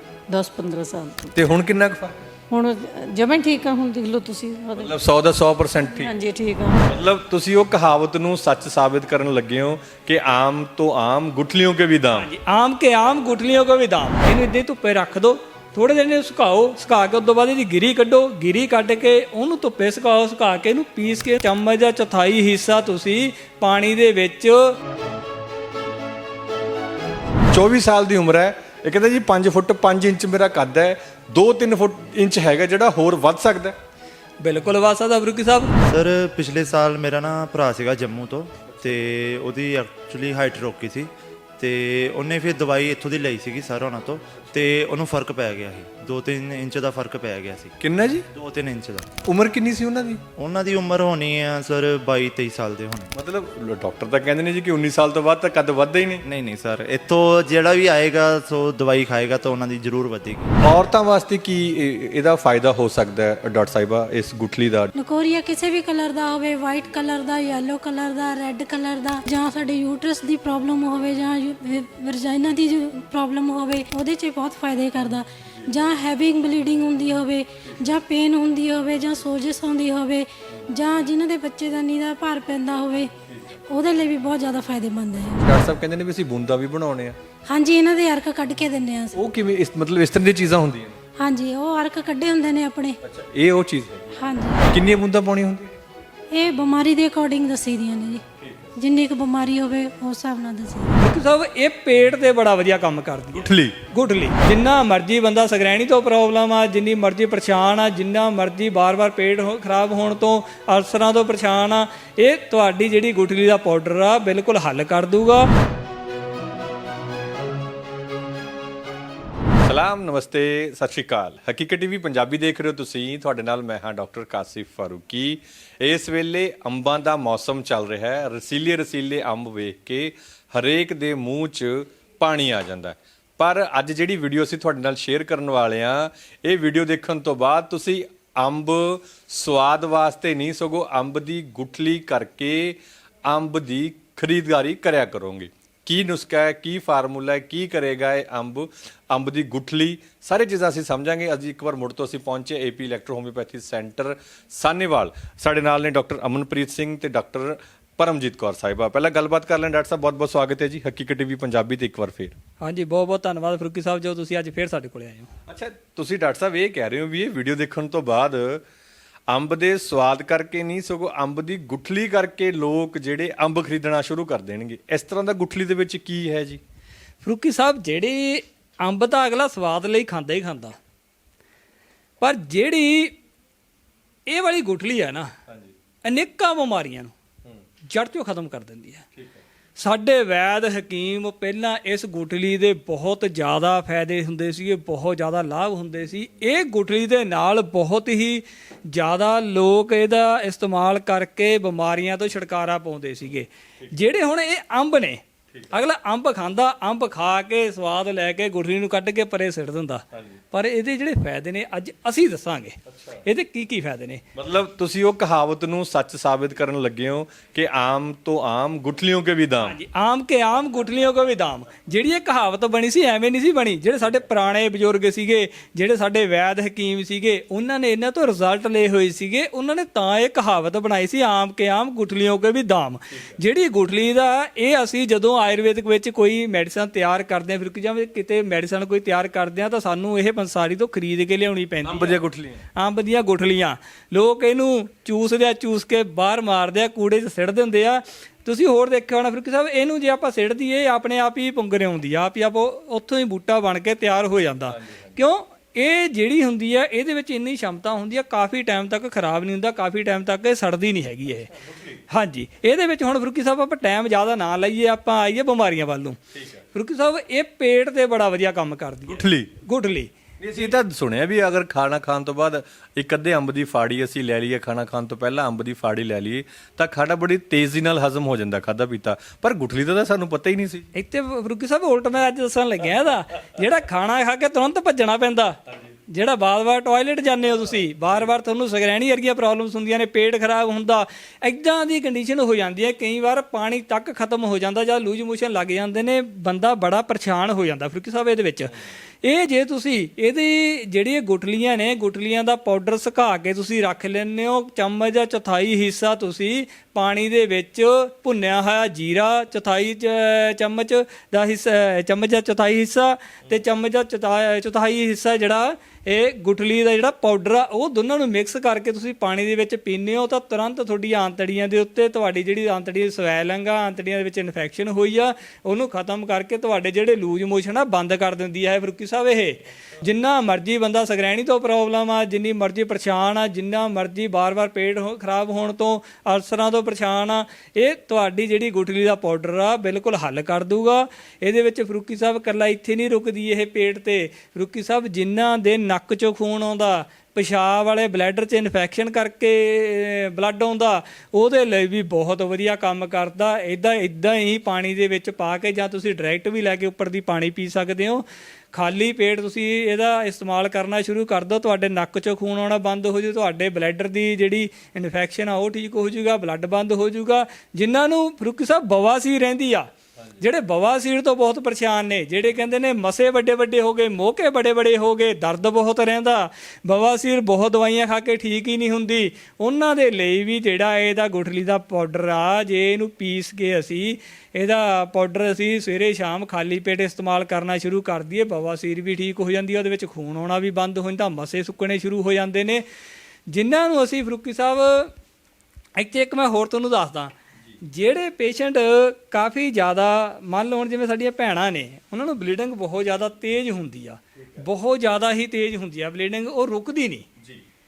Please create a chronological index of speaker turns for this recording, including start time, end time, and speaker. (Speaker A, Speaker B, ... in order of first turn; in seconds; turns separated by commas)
Speaker A: 0.3-1.3, Speaker B: 1.3-2.2, Speaker A: 2.5-4.9, Speaker B: 4.8-6.1, Speaker A: 5.9-6.9, Speaker B: 6.9-12.3, Speaker C: 12.1-24.8, Speaker B: 27.5-33.8, Speaker C: 34.4-35.7, Speaker D: 35.8-47.7, Speaker B: 38.7-39.0, Speaker B: 44.4-44.6, Speaker B: 47.8-48.3, Speaker D: 48.3-49.1, Speaker B: 49.2-50.2, Speaker D: 50.4-53.1, Speaker B: 53.1-56.2, Speaker D: 56.2-60.5, Speaker B: 60.6-64.9, Speaker E: 65.0-83.1, Speaker B: 83.3-83.6, Speaker E: 83.7-85.5, Speaker B: 85.4-87.2, Speaker E: 87.5-89.2, Speaker B: 89.1-91.0, Speaker E: 91.2-93.0, Speaker B: 93.0-95.8, Speaker E: 94.2-94.7, Speaker E: 96.3-98.2, Speaker B: 98.4-98.7, Speaker E: 98.8-101.0, Speaker C: 101.0-115.5, Speaker B: 103.3-103.8, Speaker B: 119.6-162.4, Speaker C: 162.6-165.3, Speaker B: 165.5-168.6, Speaker B: 169.3-176.6, Speaker C: 177.2-180.8, Speaker C: 182.2-183.1, Speaker C: 184.3-185.3, Speaker C: 186.0-187.1, Speaker C: 187.9-189.0, Speaker C: 189.8-214.2, Speaker B: 210.1-210.4, Speaker B: 212.9-213.2, Speaker B: 214.3-219.8, Speaker C: 219.6-242.2, Speaker B: 241.8-242.6, Speaker C: 242.8-261.5, Speaker B: 254.7-255.2, Speaker B: 261.6-262.0, Speaker C: 262.1-266.2, Speaker B: 266.3-266.6, Speaker C: 266.7-270.1, Speaker B: 269.1-269.6, Speaker B: 270.4-280.9, Speaker C: 280.9-285.6, Speaker C: 286.1-392.8, Speaker C: 393.5-395.1, Speaker C: 396.0-407.2